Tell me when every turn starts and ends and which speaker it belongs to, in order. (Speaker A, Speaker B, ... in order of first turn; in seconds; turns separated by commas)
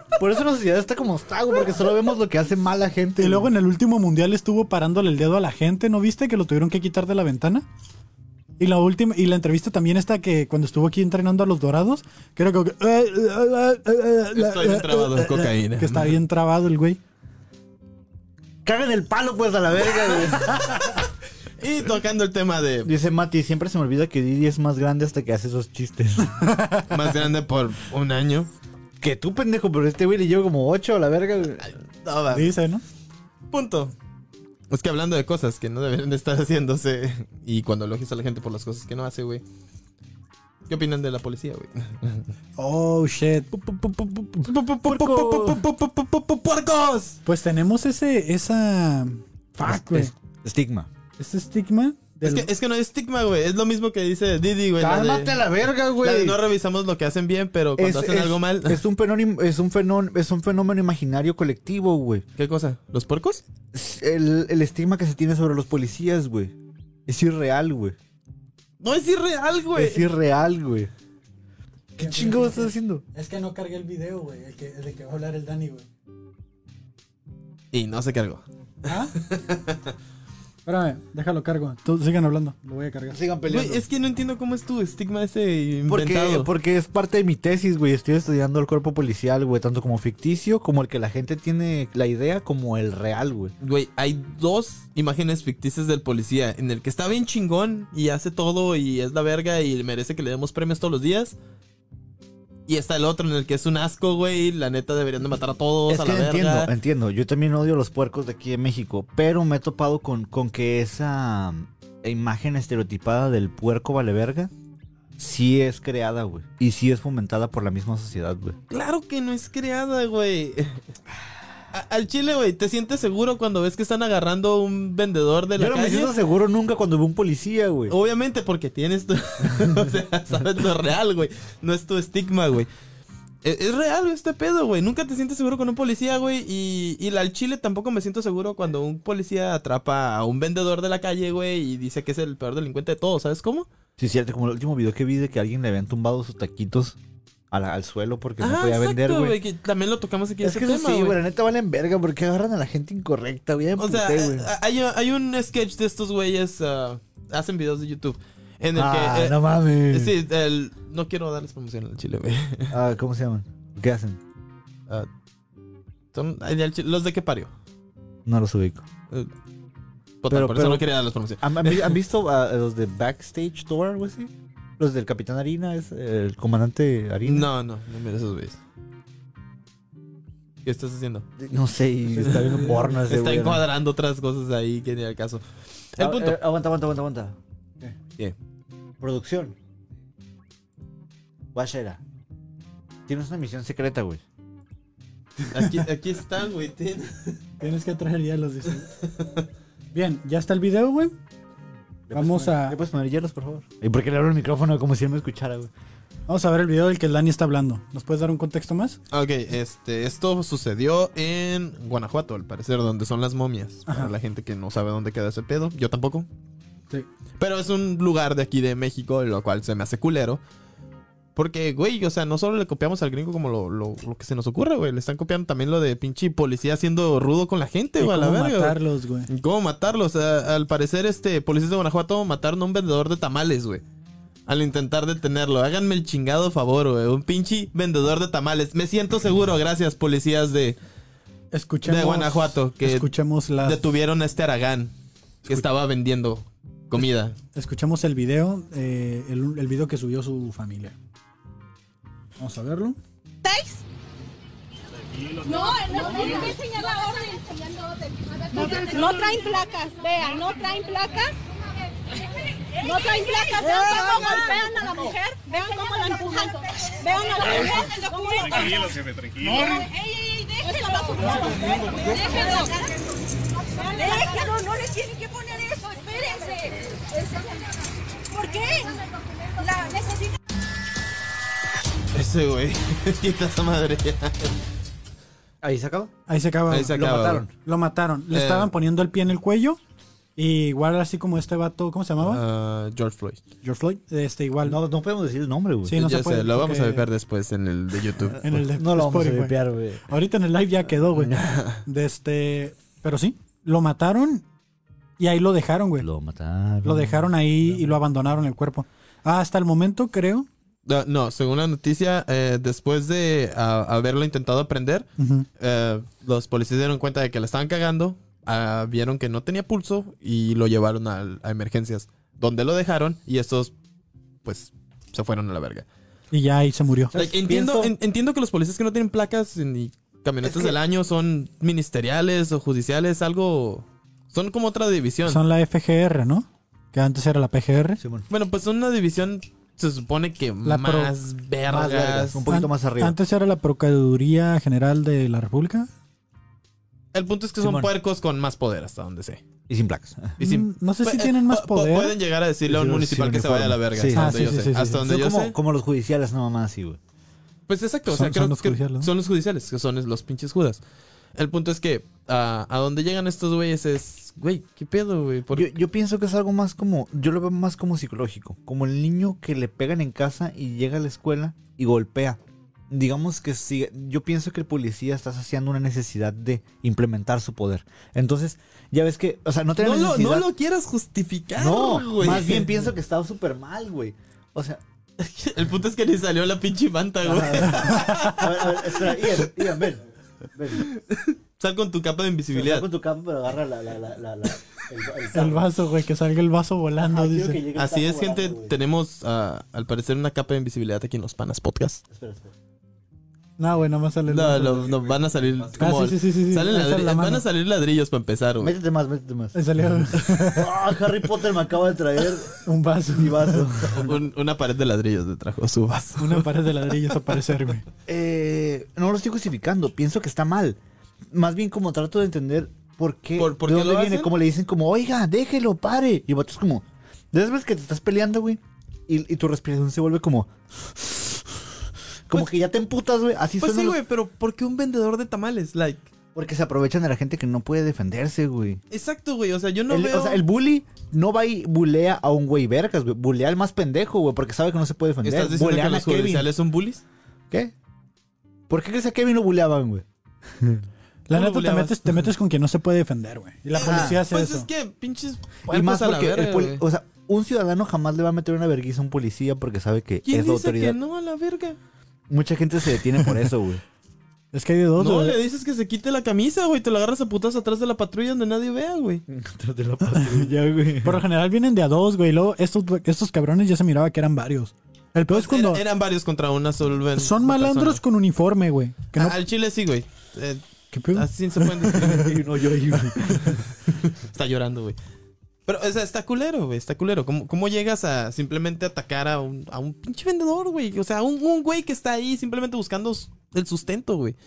Speaker A: 0.1-3.5, Speaker B: 3.1-7.7, Speaker B: 8.6-17.0, Speaker C: 14.3-16.1, Speaker A: 18.6-20.8, Speaker C: 21.6-22.9, Speaker A: 22.8-26.4, Speaker B: 26.4-26.9, Speaker C: 26.9-28.5, Speaker A: 29.0-31.7, Speaker C: 31.7-32.5, Speaker B: 32.3-32.8, Speaker C: 33.5-33.9, Speaker C: 34.7-39.4, Speaker C: 40.7-42.2, Speaker B: 42.6-43.5, Speaker C: 44.4-47.2, Speaker A: 44.8-45.6, Speaker B: 47.2-50.1, Speaker A: 49.6-50.9, Speaker B: 51.2-52.5, Speaker C: 52.2-55.4, Speaker A: 54.8-56.4, Speaker C: 56.0-58.8, Speaker A: 57.8-62.2, Speaker C: 62.4-63.4, Speaker A: 63.7-66.5, Speaker A: 67.1-68.0, Speaker C: 68.8-70.1, Speaker A: 69.7-70.9, Speaker A: 72.0-73.0, Speaker B: 72.0-75.8, Speaker C: 77.7-79.9, Speaker B: 78.9-79.1, Speaker B: 80.7-83.2, Speaker A: 83.1-83.8, Speaker C: 83.5-86.5, Speaker A: 85.9-93.5, Speaker C: 93.6-101.4, Speaker C: 102.7-106.7, Speaker A: 105.9-114.5, Speaker A: 115.2-118.5, Speaker C: 118.7-120.8, Speaker C: 121.7-126.1, Speaker A: 125.6-127.9, Speaker C: 127.9-132.7, Speaker C: 133.4-143.7, Speaker A: 144.0-147.0, Speaker A: 147.5-149.4, Speaker C: 148.4-151.2, Speaker A: 150.4-154.5, Speaker C: 153.8-162.8, Speaker A: 158.7-160.1, Speaker A: 162.7-164.2, Speaker C: 166.1-167.5, Speaker A: 168.2-168.8, Speaker C: 170.2-171.9, Speaker A: 170.3-170.9, Speaker A: 171.4-177.5, Speaker C: 177.2-178.6, Speaker C: 180.6-181.2, Speaker A: 181.4-183.7, Speaker C: 183.0-186.4, Speaker A: 186.0-187.4, Speaker A: 189.0-189.6, Speaker A: 191.5-192.0, Speaker A: 193.1-194.2, Speaker B: 195.4-195.7, Speaker C: 195.5-197.4, Speaker B: 197.6-198.9, Speaker C: 199.1-199.4, Speaker B: 199.9-201.1, Speaker A: 202.1-205.7, Speaker B: 202.1-202.8, Speaker B: 206.3-209.0, Speaker C: 209.1-216.2, Speaker B: 213.9-214.1, Speaker C: 217.4-220.4, Speaker C: 221.3-233.8, Speaker B: 228.0-229.3, Speaker C: 234.5-240.8, Speaker B: 241.5-243.8, Speaker C: 241.8-243.1, Speaker C: 243.6-244.9, Speaker C: 245.4-247.3, Speaker B: 247.5-251.0, Speaker B: 252.4-253.0, Speaker D: 253.4-253.8, Speaker D: 255.4-261.4, Speaker D: 262.8-273.0, Speaker D: 273.6-280.3, Speaker C: 282.1-284.5, Speaker A: 285.6-286.1, Speaker B: 286.3-287.0, Speaker C: 286.7-287.4, Speaker A: 286.9-287.5, Speaker B: 287.6-289.8, Speaker C: 288.3-288.7, Speaker B: 290.4-292.4, Speaker C: 292.2-293.4, Speaker B: 293.6-294.8, Speaker A: 294.6-296.0, Speaker B: 295.9-297.1, Speaker C: 295.9-298.5, Speaker B: 298.4-304.4, Speaker A: 298.5-300.0, Speaker C: 301.4-301.8, Speaker B: 305.2-306.1, Speaker A: 306.0-307.3, Speaker B: 306.8-310.5, Speaker C: 310.9-323.7, Speaker B: 315.2-315.5, Speaker C: 324.4-325.9, Speaker B: 326.3-327.1, Speaker A: 327.1-327.9, Speaker C: 327.1-335.4, Speaker A: 330.4-330.8, Speaker B: 335.2-338.0, Speaker A: 338.0-338.2, Speaker C: 338.3-342.4, Speaker B: 340.6-341.1, Speaker A: 341.7-343.1, Speaker B: 342.5-345.9, Speaker C: 347.1-349.4, Speaker A: 347.6-347.9, Speaker A: 349.7-350.3, Speaker B: 350.4-352.1, Speaker C: 350.4-355.5, Speaker B: 352.7-355.0, Speaker A: 353.9-357.0, Speaker C: 357.7-360.8, Speaker B: 358.1-359.1, Speaker C: 361.3-365.7, Speaker A: 365.5-372.4, Speaker A: 372.9-380.5, Speaker C: 379.8-382.8, Speaker A: 381.6-384.8, Speaker C: 385.2-389.5, Speaker A: 387.2-390.0, Speaker B: 388.0-388.3, Speaker A: 390.5-390.9, Speaker C: 390.8-392.9, Speaker A: 392.5-395.6, Speaker B: 395.3-397.6, Speaker A: 397.0-398.8, Speaker C: 397.8-402.0, Speaker A: 402.1-402.5, Speaker B: 403.6-405.1, Speaker C: 404.3-408.7, Speaker B: 405.8-407.4, Speaker A: 408.6-409.6, Speaker B: 409.5-410.7, Speaker A: 410.1-414.1, Speaker B: 412.6-413.7, Speaker C: 413.9-416.5, Speaker B: 416.2-417.8, Speaker A: 418.1-420.8, Speaker A: 421.3-431.7, Speaker C: 423.4-424.3, Speaker A: 432.3-434.0, Speaker C: 433.6-436.1, Speaker A: 436.3-438.8, Speaker C: 438.9-440.4, Speaker A: 439.9-446.5, Speaker C: 445.2-447.0, Speaker A: 448.7-450.8, Speaker B: 451.3-454.7, Speaker C: 451.3-452.3, Speaker C: 453.7-456.8, Speaker A: 453.8-454.2, Speaker A: 455.7-461.0, Speaker C: 460.2-461.8, Speaker A: 462.3-463.8, Speaker B: 464.5-465.4, Speaker C: 465.0-469.2, Speaker A: 469.3-471.2, Speaker B: 471.0-475.8, Speaker C: 475.3-478.0, Speaker B: 477.1-479.4, Speaker C: 479.1-482.4, Speaker B: 480.9-482.2, Speaker A: 482.1-483.6, Speaker C: 484.1-485.0, Speaker C: 485.6-494.4